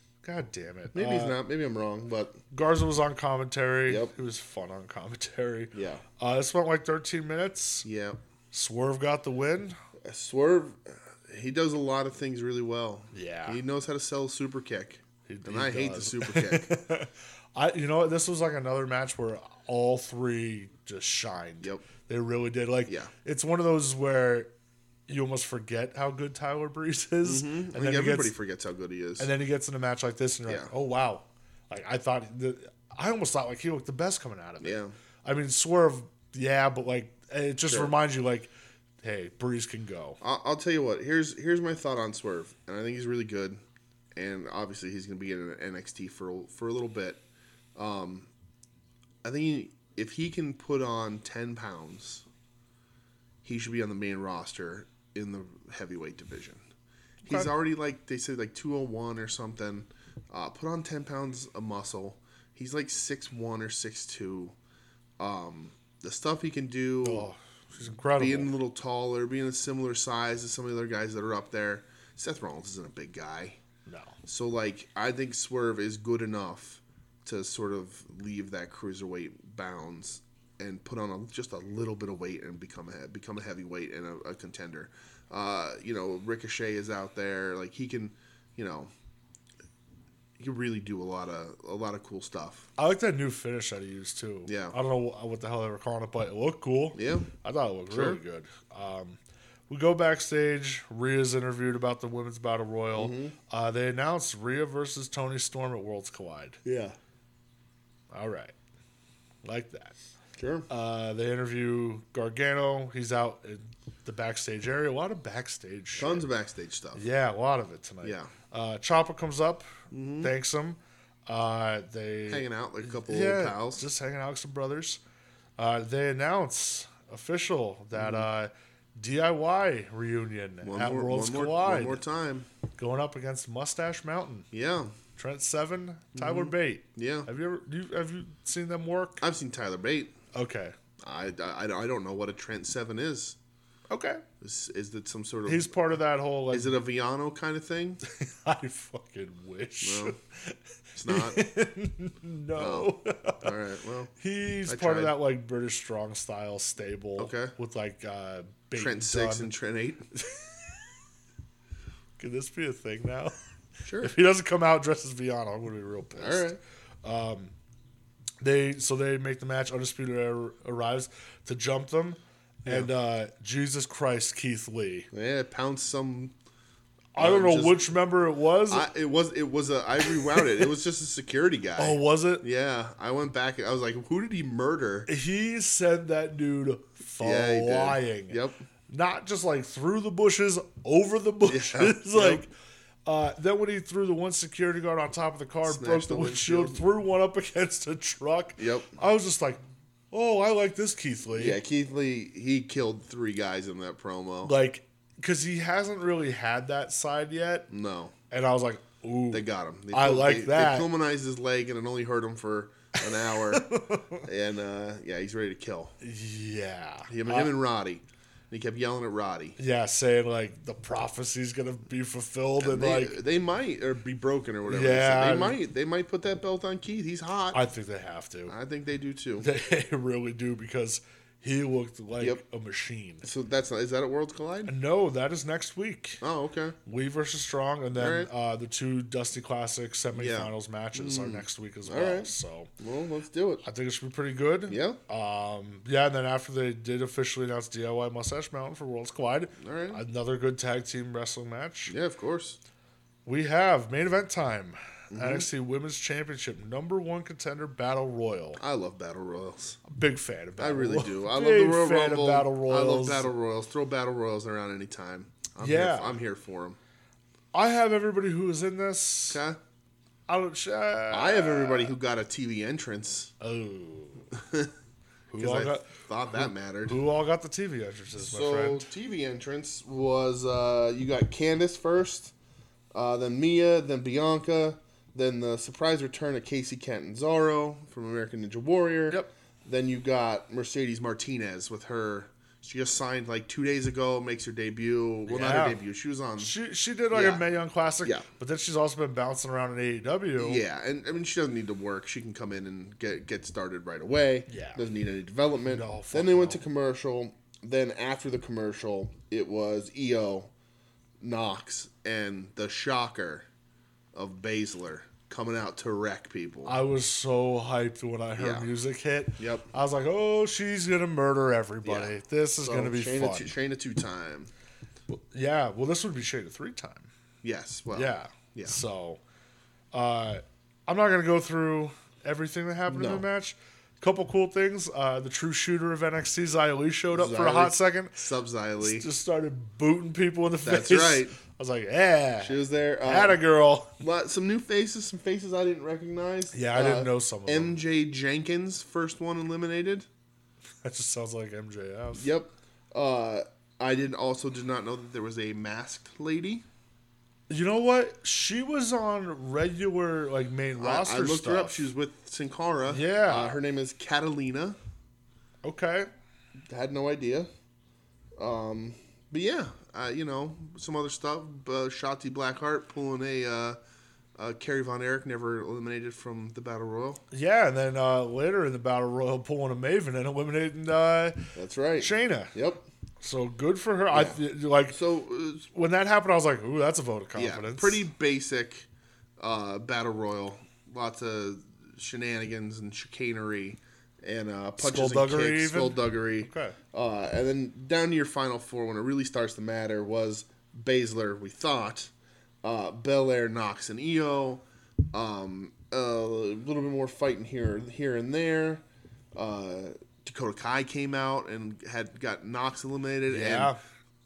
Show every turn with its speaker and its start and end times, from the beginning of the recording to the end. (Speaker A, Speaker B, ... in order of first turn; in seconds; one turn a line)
Speaker A: 0.2-1.4
Speaker B: 0.9-2.4
Speaker A: 2.5-7.8
Speaker B: 3.9-4.1
Speaker B: 5.7-6.0
Speaker B: 7.8-8.2
Speaker A: 8.5-9.8
Speaker B: 10.0-16.8
Speaker A: 13.1-13.6
Speaker A: 15.3-24.5
Speaker A: 25.1-28.3
Speaker B: 27.2-29.3
Speaker A: 29.2-38.5
Speaker B: 34.6-34.9
Speaker A: 39.0-40.2
Speaker B: 40.2-43.6
Speaker B: 44.1-47.2
Speaker B: 47.8-48.3
Speaker B: 49.2-52.2
Speaker B: 53.4-56.6
Speaker A: 57.2-57.5
Speaker B: 57.2-64.5
Speaker B: 65.2-67.3
Speaker A: 67.0-68.5
Speaker B: 68.2-73.6
Speaker A: 73.8-74.2
Speaker B: 74.2-88.9
Speaker B: 90.4-92.7
Speaker A: 92.8-106.8
Speaker B: 94.5-94.8
Speaker B: 96.9-97.3
Speaker B: 97.9-98.2
Speaker B: 102.9-103.3
Speaker A: 108.1-108.5
Speaker A: 109.4-109.9
Speaker B: 110.4-110.7
Speaker A: 110.7-116.2
Speaker B: 116.0-117.0
Speaker A: 116.9-119.7
Speaker B: 118.0-118.3
Speaker B: 119.9-120.3
Speaker A: 120.2-125.0
Speaker B: 122.3-123.9
Speaker A: 125.6-132.0
Speaker B: 127.9-128.2
Speaker B: 130.6-132.5
Speaker A: 132.8-134.5
Speaker B: 134.5-134.9
Speaker A: 135.2-139.2
Speaker B: 136.1-137.3
Speaker B: 139.2-140.2
Speaker A: 140.3-140.7
Speaker B: 141.0-143.3
Speaker A: 143.9-144.2
Speaker B: 144.4-145.7
Speaker A: 145.4-146.7
Speaker B: 146.5-148.0
Speaker A: 148.0-150.6
Speaker B: 149.8-150.1
Speaker B: 150.9-151.4
Speaker A: 151.1-153.5
Speaker B: 152.6-154.1
Speaker A: 154.2-159.5
Speaker B: 154.7-155.1
Speaker B: 157.2-157.5
Speaker B: 158.7-160.1
Speaker A: 160.1-160.8
Speaker A: 162.2-163.3
Speaker B: 163.8-164.1
Speaker A: 164.0-166.5
Speaker B: 166.1-166.6
Speaker A: 167.0-167.5
Speaker A: 168.4-175.1
Speaker B: 175.1-176.3
Speaker A: 177.1-178.9
Speaker B: 177.2-177.8
Speaker B: 178.7-185.1
Speaker A: 181.8-182.4
Speaker A: 185.1-188.3
Speaker B: 187.2-188.6
Speaker A: 188.9-192.5
Speaker B: 191.5-192.4
Speaker A: 193.0-199.6
Speaker B: 195.6-196.8
Speaker B: 198.6-198.9
Speaker A: 200.1-201.6
Speaker B: 201.3-204.5
Speaker A: 204.4-207.7
Speaker B: 207.7-208.1
Speaker A: 208.3-210.9
Speaker B: 209.3-215.9
Speaker A: 213.5-214.2
Speaker A: 216.0-217.5
Speaker B: 217.1-219.6
Speaker A: 219.6-223.2
Speaker B: 222.6-227.6
Speaker A: 224.7-225.6
Speaker A: 227.5-228.5
Speaker B: 228.5-229.5
Speaker A: 229.4-233.2
Speaker B: 233.2-234.7
Speaker A: 234.7-236.2
Speaker B: 236.2-236.8
Speaker A: 236.8-242.7
Speaker B: 237.9-238.3
Speaker B: 240.1-243.6
Speaker A: 243.6-251.9
Speaker B: 244.7-245.0
Speaker B: 249.6-250.0
Speaker B: 251.9-252.6
Speaker A: 253.2-258.6
Speaker B: 255.1-255.5
Speaker B: 258.6-259.8
Speaker A: 259.9-263.3
Speaker B: 260.6-266.8
Speaker A: 265.6-266.2
Speaker A: 267.5-269.4
Speaker B: 269.3-269.6
Speaker A: 270.3-271.9
Speaker B: 271.1-273.3
Speaker A: 273.4-274.3
Speaker B: 274.3-274.7
Speaker B: 275.3-277.0
Speaker A: 275.3-278.9
Speaker B: 278.2-282.3
Speaker B: 282.9-296.5
Speaker A: 295.3-295.8
Speaker A: 296.4-300.6
Speaker B: 297.1-297.4
Speaker B: 300.4-310.5
Speaker A: 304.5-304.8
Speaker A: 305.7-306.6
Speaker B: 311.2-313.4
Speaker B: 314.1-316.7
Speaker A: 316.6-323.5
Speaker B: 318.4-318.7
Speaker B: 319.4-319.7
Speaker B: 321.8-324.5
Speaker A: 325.1-327.1
Speaker B: 327.4-328.8
Speaker A: 327.9-329.2
Speaker A: 329.9-338.2
Speaker B: 332.9-333.2
Speaker B: 337.1-339.1
Speaker A: 338.8-343.9
Speaker B: 340.6-341.4
Speaker B: 342.4-343.4
Speaker B: 344.0-350.1
Speaker A: 346.5-347.8
Speaker A: 350.8-352.3
Speaker B: 352.1-356.6
Speaker A: 357.5-361.9
Speaker B: 360.8-364.8
Speaker A: 362.9-363.6
Speaker A: 365.6-366.1
Speaker B: 366.7-367.5
Speaker B: 368.4-373.8
Speaker B: 374.4-377.2
Speaker A: 377.3-381.4
Speaker B: 381.5-382.8
Speaker A: 382.0-382.5
Speaker A: 383.2-388.1
Speaker B: 384.1-385.6
Speaker B: 387.4-388.9
Speaker B: 389.4-402.1
Speaker A: 394.8-396.8
Speaker B: 402.6-408.8
Speaker B: 409.3-413.7
Speaker A: 413.3-413.8